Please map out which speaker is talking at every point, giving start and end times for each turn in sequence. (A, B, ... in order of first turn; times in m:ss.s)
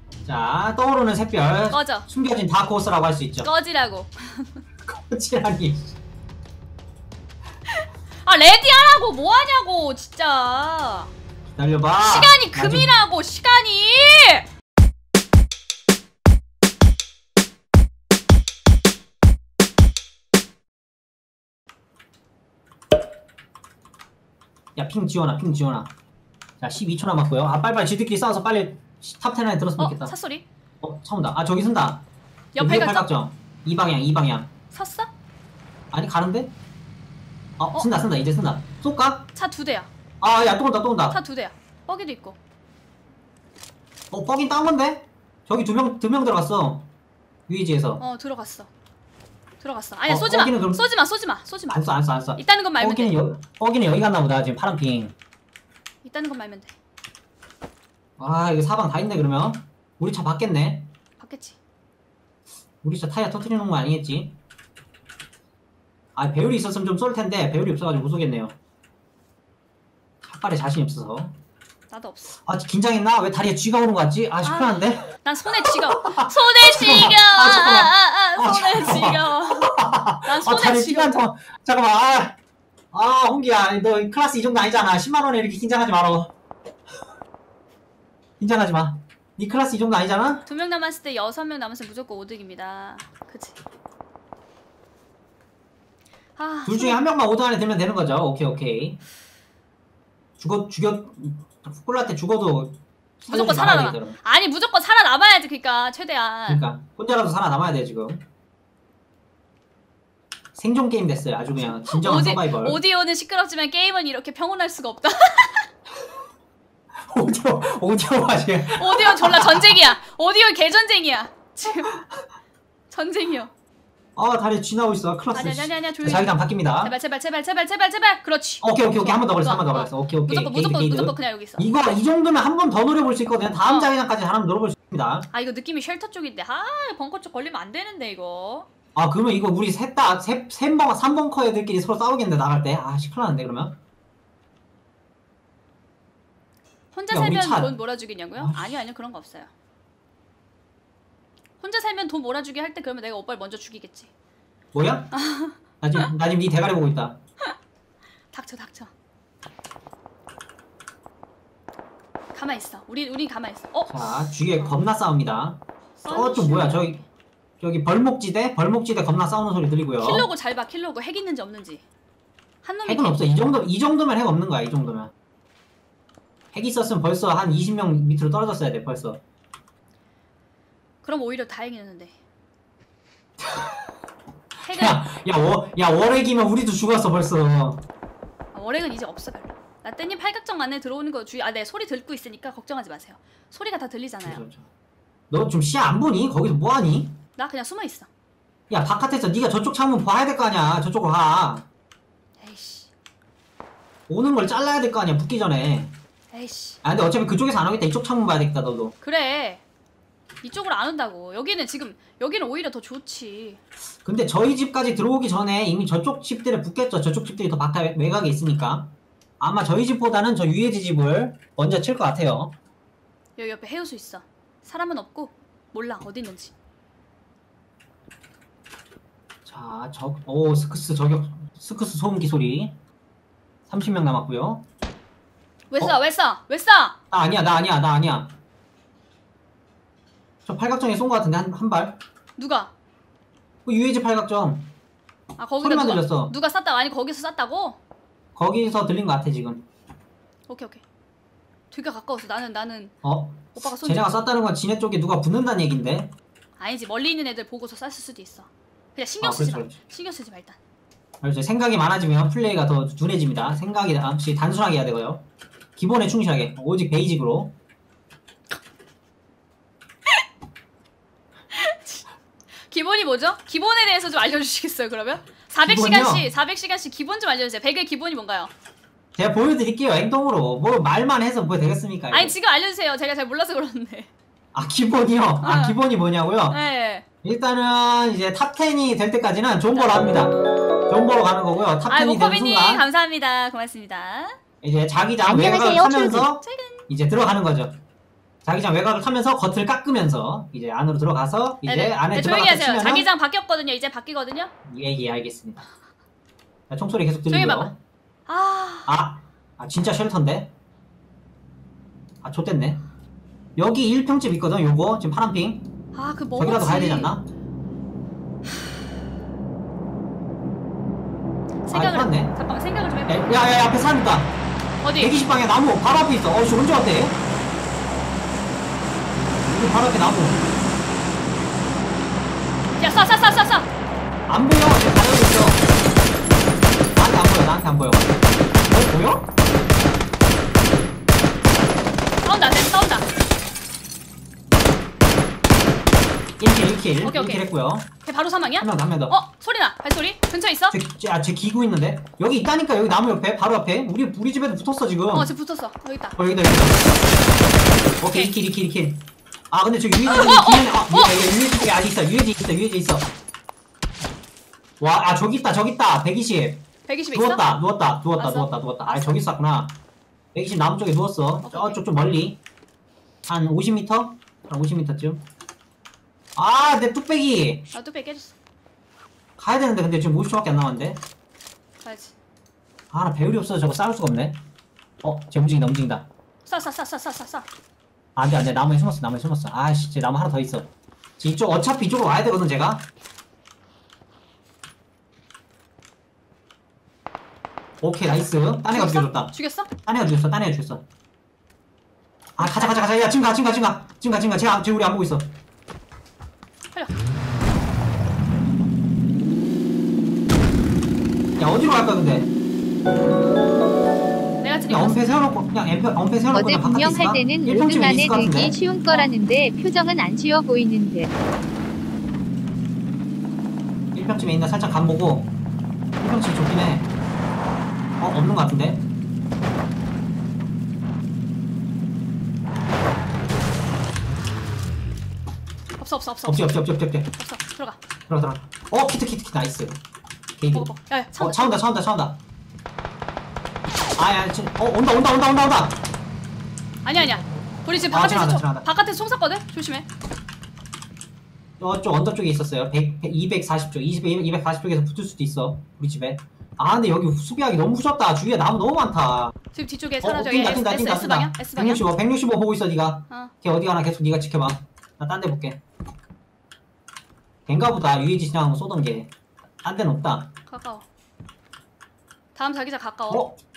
0:00.2-0:03.5 A
0:01.7-0:02.1 B
0:03.4-0:04.6 B
0:04.9-0:06.0 A
0:07.7-0:11.1 B
0:11.6-0:12.9 A
0:12.0-0:14.5 B
0:24.8-0:25.9 A
0:26.6-0:30.1 A
0:29.8-0:30.5 B
0:30.8-0:32.0 A
0:32.6-0:33.1 B
0:32.6-0:34.5 A
0:34.7-0:35.1 B
0:35.9-0:36.5 A
0:37.6-0:39.3 A
0:39.4-0:39.9 B
0:40.2-0:41.2 A
0:41.1-0:42.4 B
0:44.1-0:46.9 A
0:47.5-0:48.0 A
0:48.0-0:48.7 B
0:49.6-0:53.2 B
0:50.1-0:50.9 A
0:51.7-0:55.1 A
0:56.0-0:56.7 B
0:58.2-1:00.9 A
1:01.2-1:01.6 B
1:02.8-1:04.4 A
1:06.2-1:08.6 A
1:10.2-1:11.3 A
1:11.9-1:12.3 B
1:12.4-1:15.1 A
1:14.4-1:21.2 B
1:15.6-1:22.4 A
1:22.9-1:26.3 A
1:28.4-1:30.4 A
1:30.4-1:33.6 B
1:36.4-1:37.0 B
1:36.7-1:39.0 A
1:40.4-1:44.2 A
1:43.3-1:46.6 B
1:46.5-1:48.2 A
1:50.6-1:52.8 A
1:51.7-1:55.7 B
1:57.0-1:59.8 A
1:58.7-2:02.0 B
2:02.9-2:03.5 B
2:04.2-2:06.9 A
2:05.3-2:11.7 B
2:08.6-2:15.3 A
2:13.6-2:13.9 B
2:15.3-2:18.7 B
2:19.0-2:23.8 A
2:26.9-2:29.5 B
2:27.1-2:27.8 A
2:28.4-2:28.8 A
2:31.6-2:34.1 B
2:34.7-2:35.1 A
2:35.1-2:36.1 B
2:35.8-2:37.2 A
2:38.3-2:38.9 B
2:42.3-2:44.0 B
2:43.9-2:47.0 A
2:46.0-2:47.0 B
2:47.6-2:50.3 A
2:50.0-2:51.8 B
2:52.6-2:53.5 B
2:52.8-2:55.1 A
2:56.5-2:59.2 A
3:01.0-3:02.2 B
3:04.6-3:07.8 A
3:04.7-3:05.0 B
3:08.5-3:14.4 B
3:14.2-3:14.7 A
3:15.3-3:17.2 A
3:17.4-3:18.1 B
3:18.7-3:21.7 A
3:22.4-3:22.9 B
3:24.1-3:25.9 A
3:26.3-3:26.8 B
3:26.8-3:28.9 A
3:29.0-3:29.6 B
3:30.4-3:33.6 B
3:34.0-3:42.6 A
3:43.4-3:46.5 B
3:49.5-3:52.8 A
3:53.7-3:54.6 A
3:55.7-3:57.0 B
3:57.1-3:58.3 A
4:00.4-4:02.0 A
4:02.4-4:02.7 B
4:03.7-4:04.7 A
4:05.4-4:07.8 B
4:05.6-4:06.3 A
4:08.4-4:09.6 A
4:10.5-4:10.8 B
4:11.7-4:13.0 B
4:13.0-4:16.1 A
4:13.6-4:14.2 B
4:16.6-4:20.6 B
4:19.2-4:19.8 A
4:21.2-4:25.2 A
4:25.8-4:27.5 A
4:31.5-4:32.0 B
4:32.7-4:38.5 B
4:35.6-4:36.3 A
4:39.2-4:42.3 A
4:42.1-4:44.1 B
4:44.5-4:46.6 A
4:45.4-4:45.8 B
4:46.5-4:47.0 B
4:47.2-4:52.8 A
4:51.9-4:54.4 B
4:54.6-4:57.8 A
4:55.2-4:56.3 C
4:56.4-4:56.9 B
4:58.4-5:03.1 A
5:01.6-5:04.5 B
5:04.7-5:05.6 A
5:06.7-5:07.8 A
5:07.3-5:07.7 B
5:08.3-5:08.9 B
5:08.9-5:10.5 A
5:12.2-5:12.8 A
5:13.6-5:15.7 A
5:16.0-5:17.1 B
5:16.4-5:17.3 A
5:21.6-5:23.4 B
5:21.7-5:22.4 A
5:23.1-5:24.3 A
5:24.8-5:25.2 B
5:25.0-5:27.2 A
5:29.4-5:30.4 A
5:32.8-5:33.7 B
5:34.3-5:35.6 A
5:37.0-5:39.3 A
5:42.2-5:43.1 B
5:46.4-5:47.9 A
5:47.0-5:47.5 B
5:48.0-5:50.8 B
5:48.6-5:49.2 A
5:50.7-5:55.3 A
5:55.1-5:56.2 B
5:56.2-5:57.0 A
5:58.0-6:03.1 A
5:58.1-5:58.3 B
6:00.1-6:01.2 B
6:04.8-6:09.8 A
6:06.9-6:07.4 B
6:08.2-6:09.2 B
6:10.3-6:12.4 A
6:11.4-6:11.8 B
6:13.3-6:15.2 A
6:16.4-6:17.7 A
6:17.7-6:18.3 B
6:19.4-6:21.0 A
6:21.8-6:22.2 B
6:22.9-6:24.4 A
6:25.0-6:26.1 A
6:26.4-6:27.5 B
6:28.2-6:32.8 A
6:37.8-6:39.3 A
6:38.7-6:39.7 B
6:39.8-6:40.8 A
6:42.4-6:45.3 A
6:42.4-6:42.8 B
6:46.7-6:47.0 B
6:51.4-6:52.3 A
6:54.4-6:55.2 B
6:54.7-6:58.6 A
6:56.3-7:01.1 C
7:04.0-7:05.3 A
7:06.0-7:06.9 A
7:08.0-7:08.8 A
7:15.8-7:17.8 B
7:16.2-7:17.1 A
7:18.1-7:19.8 A
7:20.4-7:22.2 A
7:20.5-7:21.6 B
7:24.0-7:25.8 A
7:26.8-7:29.9 B
7:27.9-7:28.7 A
7:31.6-7:39.3 A
7:39.5-7:41.9 B
7:40.0-7:45.6 A
7:47.5-7:49.1 A
7:49.6-7:50.3 A
7:50.5-7:50.9 B
7:52.4-7:53.3 B
7:53.1-7:53.4 A